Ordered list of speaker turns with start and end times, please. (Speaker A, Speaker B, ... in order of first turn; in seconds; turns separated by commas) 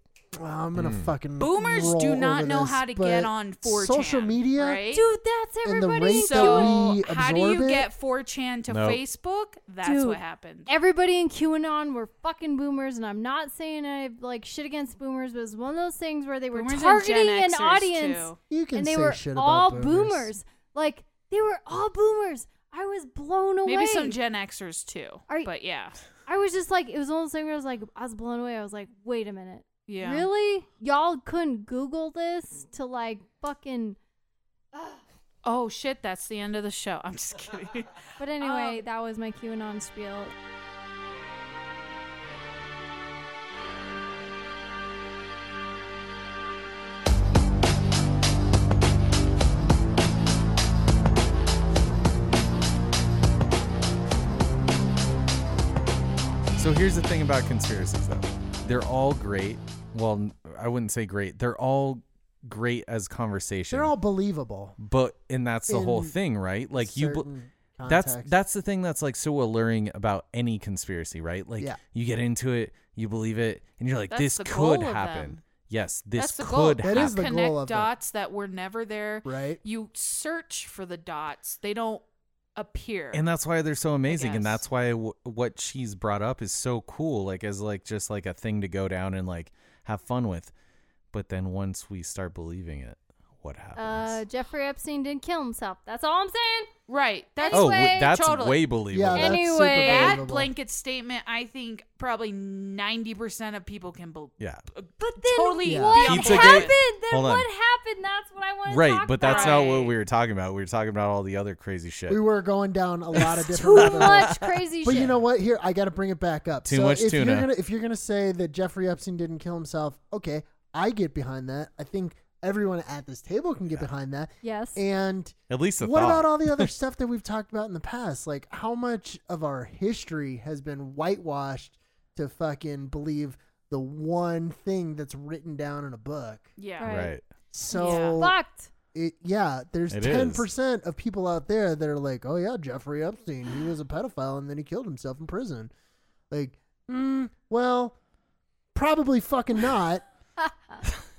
Speaker A: 0.4-4.8, Speaker B: 0.8-1.1, Speaker C: 1.4-5.0, Speaker D: 4.9-6.8, Speaker A: 5.6-7.9, Speaker C: 6.2-10.7, Speaker B: 8.7-9.0, Speaker D: 9.8-24.2, Speaker C: 16.5-18.4, Speaker A: 18.5-20.3, Speaker C: 23.7-26.0, Speaker D: 26.3-34.0, Speaker C: 29.9-30.3, Speaker C: 35.4-38.8, Speaker D: 38.2-40.3, Speaker B: 56.6-63.9, Speaker A: 63.7-64.8, Speaker B: 64.8-67.3, Speaker A: 65.7-66.2, Speaker A: 66.7-68.3, Speaker B: 67.9-77.2, Speaker C: 74.1-75.4, Speaker C: 76.2-82.0, Speaker A: 76.8-77.9, Speaker A: 79.2-79.6, Speaker C: 82.6-83.2, Speaker B: 83.1-90.5, Speaker C: 84.1-84.6, Speaker B: 91.1-94.2, Speaker D: 93.8-96.7, Speaker C: 96.9-98.6, Speaker D: 97.4-98.2, Speaker B: 97.5-99.4, Speaker A: 98.9-100.5, Speaker D: 99.1-100.2, Speaker C: 99.8-106.8, Speaker D: 105.0-109.7, Speaker A: 105.6-106.1, Speaker B: 106.0-107.5, Speaker B: 108.7-112.2, Speaker C: 109.2-110.0, Speaker A: 112.1-136.5, Speaker B: 113.2-114.5, Speaker D: 113.5-115.1, Speaker B: 116.7-117.5, Speaker D: 124.4-124.8, Speaker B: 125.5-126.7, Speaker C: 136.6-136.9, Speaker D: 136.8-137.2, Speaker B: 136.8-137.2, Speaker A: 137.5-138.4, Speaker D: 137.7-138.7, Speaker C: 137.7-138.2, Speaker A: 138.9-145.7, Speaker B: 139.9-140.5, Speaker A: 146.3-147.9, Speaker A: 148.7-150.0, Speaker D: 150.4-150.8